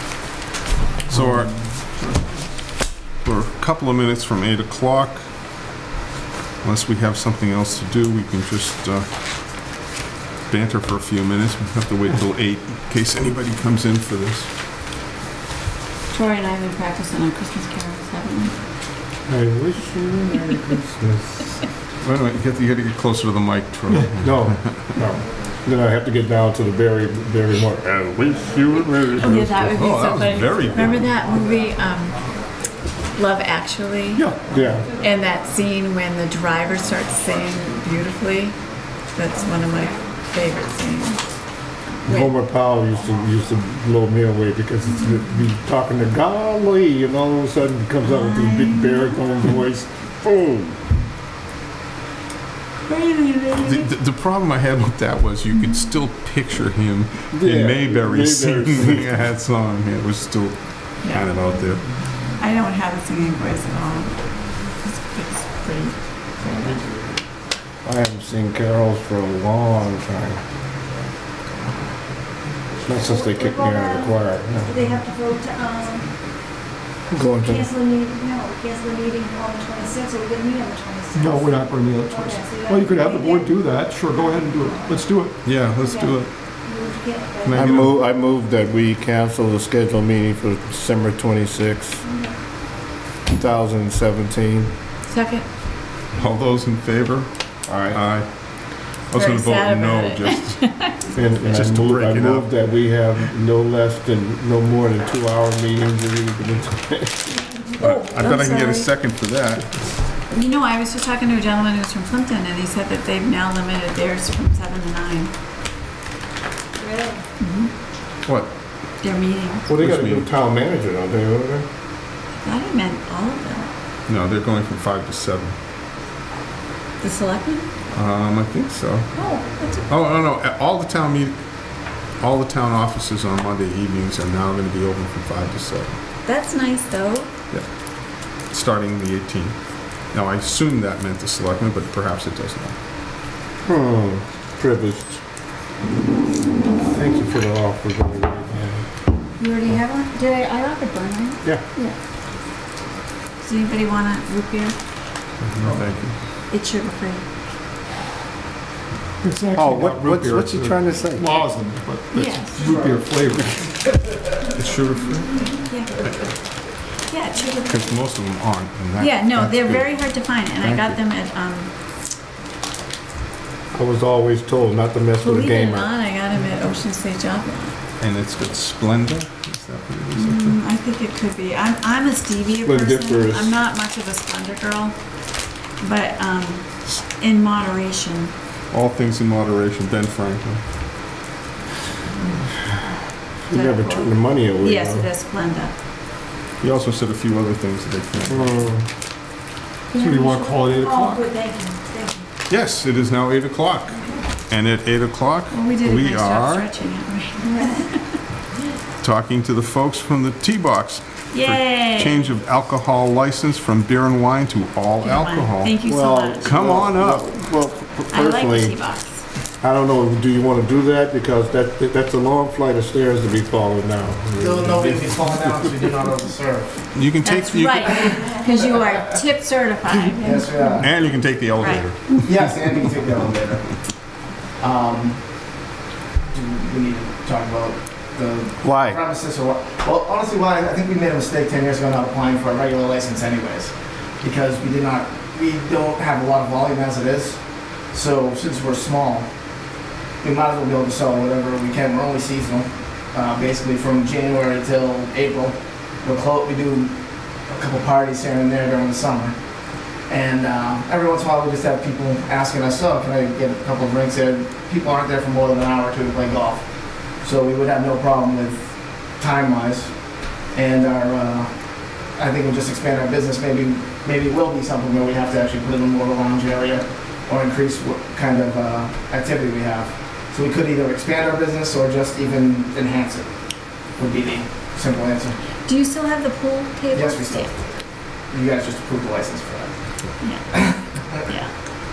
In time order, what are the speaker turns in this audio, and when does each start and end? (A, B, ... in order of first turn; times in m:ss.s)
0:01.1-0:01.7 A
0:01.1-0:02.5 B
0:03.2-0:05.3 A
0:06.6-0:09.1 A
0:10.5-0:14.5 A
0:16.1-0:18.6 C
0:19.3-0:21.4 D
0:22.0-0:24.6 A
0:24.2-0:29.9 D
0:29.2-0:32.3 C
0:29.7-0:31.1 A
0:33.2-0:34.3 C
0:34.2-0:34.4 B
0:34.5-0:34.9 D
0:34.9-0:38.6 C
0:39.2-0:41.2 C
0:42.1-0:42.3 C
0:42.1-0:50.8 D
0:48.0-0:49.5 C
0:52.9-0:53.9 C
0:53.6-1:01.8 A
0:57.3-0:59.2 D
1:01.0-1:01.3 C
1:02.4-1:04.2 C
1:04.8-1:06.8 C
1:07.8-1:10.4 D
1:12.8-1:14.8 D
1:13.0-1:16.1 E
1:17.1-1:17.7 D
1:17.2-1:23.5 E
1:21.1-1:25.4 B
1:24.1-1:24.9 E
1:25.4-1:26.3 A
1:25.8-1:27.8 E
1:27.4-1:28.0 A
1:27.5-1:32.0 D
1:32.0-1:32.4 E
1:33.3-1:34.7 D
1:35.1-1:35.5 C
1:36.1-1:38.4 A
1:37.7-1:38.0 D
1:39.1-1:40.6 A
1:39.1-1:41.1 C
1:41.1-1:47.3 D
1:41.4-1:42.6 A
1:47.8-1:48.9 C
1:47.8-1:49.7 A
1:50.3-1:55.3 C
1:56.8-1:57.7 C
1:58.3-1:58.5 A
1:59.0-1:59.7 C
1:59.7-2:01.7 D
1:59.7-2:00.3 A
2:02.4-2:03.7 C
2:04.1-2:05.6 A
2:07.0-2:07.7 C
2:07.9-2:09.1 A
2:09.1-2:09.9 C
2:09.9-2:11.4 A
2:12.1-2:16.0 A
2:16.2-2:17.3 C
2:18.5-2:19.6 A
2:20.1-2:22.8 A
2:23.7-2:25.2 D
2:26.8-2:28.9 D
2:29.4-2:32.0 C
2:33.4-2:34.8 C
2:35.4-2:36.1 A
2:36.5-2:37.2 C
2:39.2-2:43.8 B
2:39.6-2:41.4 D
2:42.1-2:42.7 C
2:44.5-2:45.5 A
2:45.6-2:46.1 C
2:47.1-2:47.7 C
2:47.6-2:49.9 A
2:49.0-2:51.7 C
2:50.6-2:51.0 A
2:53.7-2:55.9 D
2:55.2-2:57.8 C
2:58.0-3:00.6 A
3:00.1-3:05.0 C
3:02.6-3:03.5 D
3:05.8-3:08.3 C
3:08.7-3:10.6 A
3:13.5-3:15.1 D
3:13.5-3:15.7 C
3:16.6-3:18.7 A
3:18.3-3:18.8 D
3:19.9-3:22.2 E
3:19.9-3:21.3 B
3:22.5-3:24.0 A
3:24.5-3:26.7 A
3:25.5-3:28.2 C
3:27.4-3:27.8 E
3:29.0-3:35.8 A
3:31.3-3:32.4 C
3:35.0-3:36.5 C
3:35.8-3:38.8 D
3:36.4-3:37.5 A
3:38.1-3:39.2 C
3:39.6-3:45.6 D
3:44.4-3:46.8 F
3:46.9-3:48.2 A
3:47.2-3:51.0 C
3:47.9-3:48.2 F
3:50.2-3:50.9 F
3:50.8-3:52.2 A
3:51.6-3:52.2 C
3:52.2-3:53.8 F
3:54.6-3:55.2 F
3:56.3-4:09.3 F
3:58.6-3:59.0 A
4:10.2-4:17.0 F
4:17.5-4:19.4 F
4:20.1-4:28.6 F
4:29.2-4:31.5 F
4:32.2-4:43.3 F
4:44.0-4:45.4 F
4:45.7-4:47.5 C
4:46.9-4:47.8 F
4:48.3-4:49.7 F
4:50.2-4:50.5 C
4:50.5-4:51.1 F